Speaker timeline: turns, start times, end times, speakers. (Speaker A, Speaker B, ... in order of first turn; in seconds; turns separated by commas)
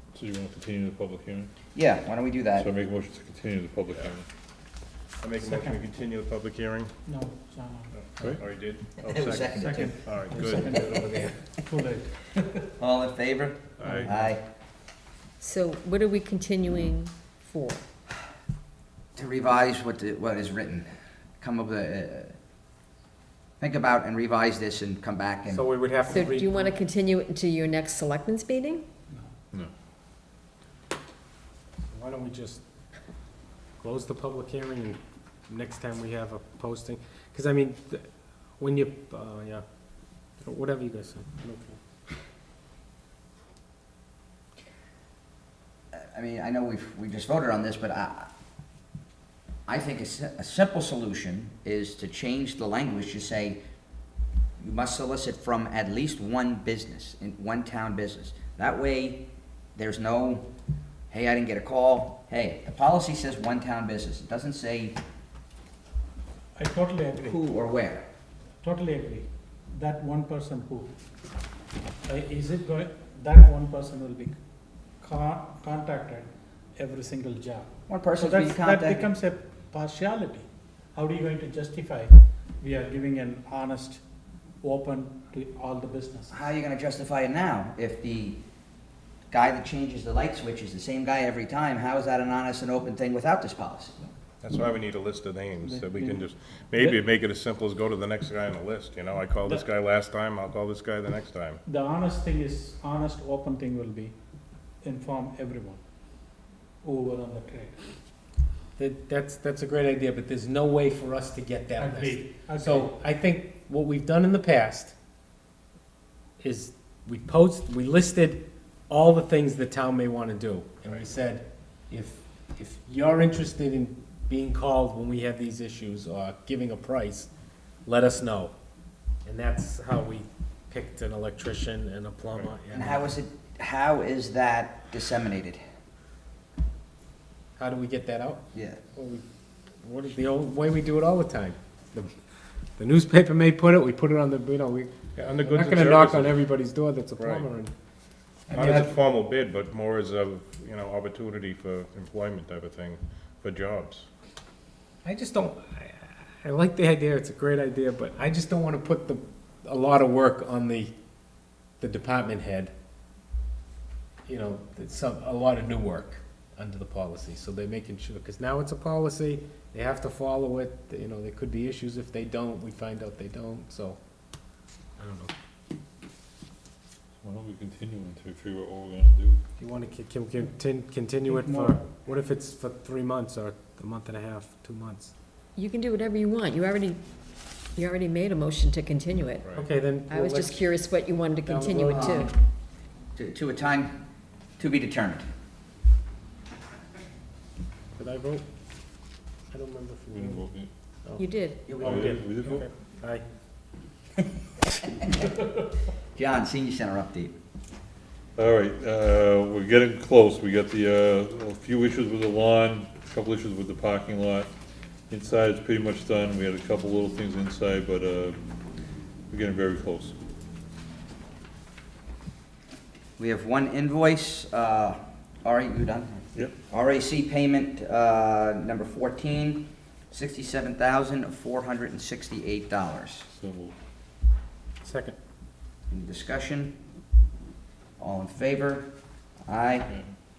Speaker A: 0.1-1.5, Speaker B: 1.8-2.7, Speaker A: 2.6-4.2, Speaker C: 5.2-6.9, Speaker D: 5.4-5.8, Speaker D: 7.1-8.3, Speaker C: 8.0-11.0, Speaker A: 8.2-8.5, Speaker B: 9.0-11.1, Speaker D: 9.3-12.6, Speaker B: 12.8-14.4, Speaker C: 13.8-14.2, Speaker E: 15.4-17.8, Speaker B: 19.2-20.9, Speaker B: 21.4-22.4, Speaker B: 23.6-25.6, Speaker F: 25.5-26.7, Speaker E: 26.1-28.8, Speaker F: 31.9-32.6, Speaker F: 33.8-39.6, Speaker F: 40.4-41.8, Speaker B: 45.9-48.3, Speaker B: 49.7-53.6, Speaker B: 54.6-60.5, Speaker B: 61.1-65.0, Speaker D: 66.6-67.4, Speaker B: 67.2-68.1, Speaker D: 68.6-70.9, Speaker D: 72.0-74.4, Speaker D: 75.0-84.0, Speaker B: 77.9-79.1, Speaker D: 84.6-86.4, Speaker B: 86.3-88.4, Speaker B: 89.3-94.0, Speaker C: 94.4-101.6, Speaker D: 95.6-96.2, Speaker D: 99.4-99.7, Speaker D: 101.6-104.2, Speaker D: 104.8-105.8, Speaker D: 106.8-107.8, Speaker F: 108.8-115.0, Speaker D: 111.8-112.9, Speaker F: 116.4-127.3, Speaker F: 127.8-128.5, Speaker F: 129.2-133.1, Speaker B: 132.7-135.6, Speaker F: 137.6-139.2, Speaker B: 138.5-138.8, Speaker F: 139.8-142.1, Speaker F: 142.8-147.7, Speaker C: 145.2-146.4, Speaker C: 147.2-147.5, Speaker F: 148.5-148.9, Speaker C: 148.5-154.1, Speaker F: 155.0-160.9, Speaker F: 161.8-162.7, Speaker F: 164.3-174.0, Speaker F: 175.0-175.3, Speaker A: 177.2-179.4, Speaker F: 179.6-185.1, Speaker D: 181.3-182.0, Speaker E: 185.6-187.0, Speaker E: 187.8-189.5, Speaker C: 189.4-189.7, Speaker F: 189.5-190.7, Speaker E: 190.1-192.3, Speaker F: 191.4-192.3, Speaker B: 192.0-192.3, Speaker B: 193.2-194.0, Speaker B: 194.6-195.3, Speaker F: 198.0-198.4, Speaker F: 199.5-200.5, Speaker A: 200.1-200.7, Speaker F: 201.1-203.2, Speaker E: 201.2-201.7, Speaker B: 201.7-202.2, Speaker A: 201.8-202.7, Speaker B: 204.9-205.3, Speaker B: 206.2-207.3, Speaker A: 208.4-214.5, Speaker A: 215.1-218.4, Speaker A: 219.3-220.1, Speaker B: 223.2-233.3, Speaker A: 233.3-233.7, Speaker F: 234.8-235.2, Speaker B: 235.9-236.8, Speaker B: 238.0-238.9, Speaker B: 239.5-239.9